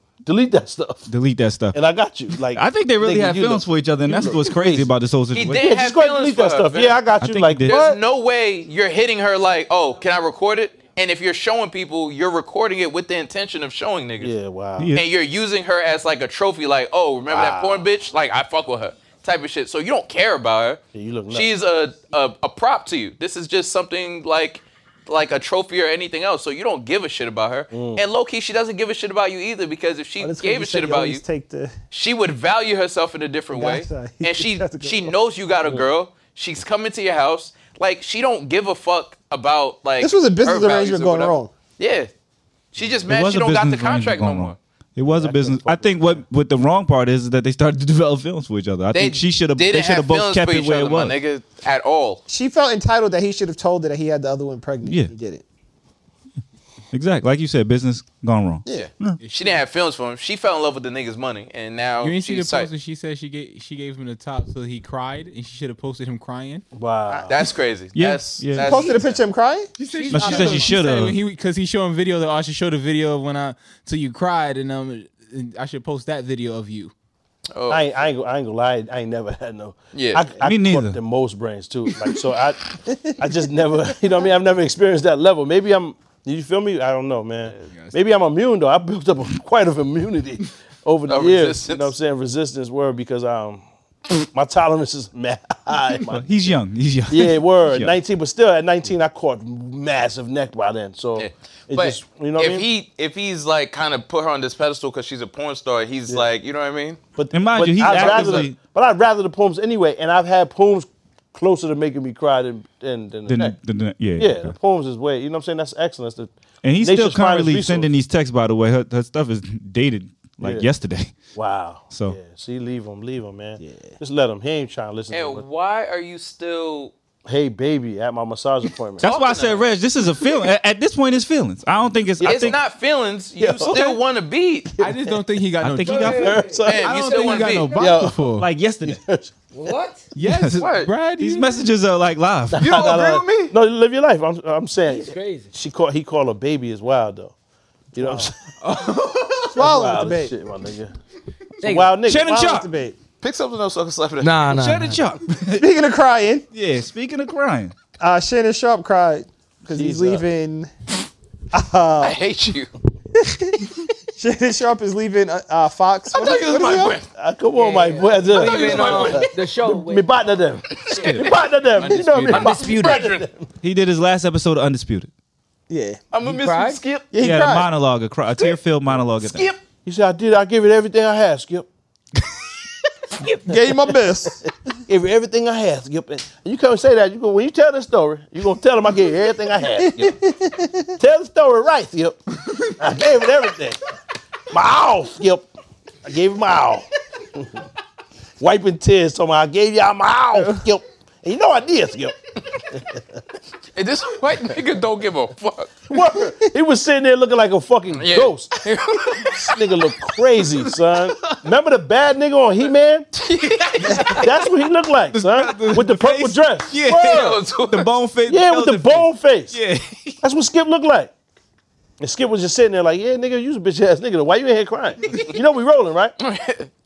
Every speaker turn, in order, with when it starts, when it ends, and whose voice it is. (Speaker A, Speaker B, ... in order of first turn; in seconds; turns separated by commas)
Speaker A: 0.2-1.1, Speaker B: 1.1-1.8, Speaker A: 1.7-4.9, Speaker B: 2.3-5.7, Speaker C: 5.3-7.0, Speaker A: 5.5-8.0, Speaker B: 7.2-7.8, Speaker C: 7.7-14.3, Speaker A: 14.2-14.9, Speaker B: 14.8-15.1, Speaker C: 14.9-31.2, Speaker A: 17.3-17.9, Speaker A: 20.9-21.5, Speaker A: 27.7-28.0, Speaker D: 30.2-31.8, Speaker C: 31.9-42.1, Speaker D: 33.5-35.1, Speaker D: 40.0-41.5, Speaker C: 42.7-44.6, Speaker B: 43.1-51.2, Speaker A: 45.1-46.2, Speaker C: 48.9-52.2, Speaker D: 52.3-55.4, Speaker B: 54.9-55.1, Speaker B: 56.9-59.2, Speaker C: 58.7-62.7, Speaker E: 59.2-59.6, Speaker E: 62.0-66.7, Speaker A: 66.8-67.4, Speaker C: 67.3-69.2, Speaker B: 67.9-68.9, Speaker D: 68.5-69.7, Speaker E: 69.8-76.9, Speaker F: 69.9-70.3, Speaker B: 70.1-71.2, Speaker C: 77.5-77.9, Speaker A: 77.7-96.5, Speaker C: 79.9-80.2, Speaker B: 80.4-81.0, Speaker D: 82.9-83.2, Speaker C: 91.1-91.9, Speaker B: 96.1-98.0, Speaker A: 97.1-102.7, Speaker C: 101.2-107.0, Speaker A: 107.2-113.6, Speaker B: 107.3-108.6, Speaker C: 107.8-108.5, Speaker B: 113.3-114.6, Speaker A: 114.2-117.9, Speaker B: 116.6-121.2, Speaker A: 120.4-120.7, Speaker A: 121.3-125.4, Speaker B: 121.9-122.2, Speaker D: 123.6-124.0, Speaker C: 125.1-126.9, Speaker A: 127.3-129.1, Speaker B: 129.0-132.6, Speaker C: 129.0-129.7, Speaker C: 132.2-134.8, Speaker A: 132.2-132.5, Speaker A: 133.4-133.8, Speaker B: 133.7-133.9, Speaker A: 134.8-135.1, Speaker E: 134.8-138.5, Speaker B: 135.6-136.4, Speaker F: 135.8-137.9, Speaker A: 136.0-138.2, Speaker C: 136.6-137.8, Speaker B: 138.4-139.0, Speaker A: 138.8-139.3, Speaker F: 139.5-140.1, Speaker E: 140.2-141.7, Speaker B: 140.2-142.8, Speaker C: 140.6-140.9, Speaker A: 142.5-147.3, Speaker C: 142.6-143.5, Speaker F: 144.9-145.5, Speaker A: 147.9-148.3, Speaker D: 148.0-148.3, Speaker E: 148.7-149.4, Speaker D: 149.5-150.3, Speaker A: 149.6-150.9, Speaker F: 151.6-151.9, Speaker A: 151.6-152.3, Speaker B: 152.1-152.7, Speaker D: 152.2-153.0, Speaker C: 153.2-154.4, Speaker F: 154.2-155.0, Speaker B: 154.5-155.7, Speaker D: 155.6-156.5, Speaker B: 156.5-157.7, Speaker D: 158.0-160.7, Speaker A: 159.7-160.3, Speaker D: 161.5-162.2, Speaker C: 162.0-162.7, Speaker D: 163.2-167.0, Speaker C: 166.1-167.1, Speaker A: 167.2-173.3, Speaker F: 167.5-170.1, Speaker C: 168.3-169.3, Speaker C: 170.8-171.4, Speaker F: 170.9-171.2, Speaker E: 171.8-172.5, Speaker C: 172.3-173.3, Speaker F: 172.3-173.0, Speaker B: 173.6-175.1, Speaker D: 175.7-176.0, Speaker C: 176.1-177.2, Speaker F: 176.3-176.8, Speaker D: 177.1-177.7, Speaker B: 177.2-179.5, Speaker C: 179.2-179.6, Speaker A: 179.8-181.7, Speaker D: 183.5-184.4, Speaker A: 184.9-190.2, Speaker D: 189.8-191.0, Speaker A: 191.0-193.8, Speaker A: 194.5-195.5, Speaker A: 196.1-197.6, Speaker A: 198.4-202.2, Speaker D: 200.3-200.6, Speaker A: 202.7-203.0, Speaker C: 203.8-205.9, Speaker A: 205.9-208.7, Speaker C: 207.9-209.7, Speaker A: 209.2-213.1, Speaker C: 213.1-214.4, Speaker E: 213.9-214.2, Speaker A: 214.0-217.4, Speaker E: 215.1-216.4, Speaker B: 215.8-220.2, Speaker C: 217.0-217.9, Speaker A: 218.3-219.6, Speaker A: 220.2-221.1, Speaker A: 222.0-226.2, Speaker C: 226.2-226.7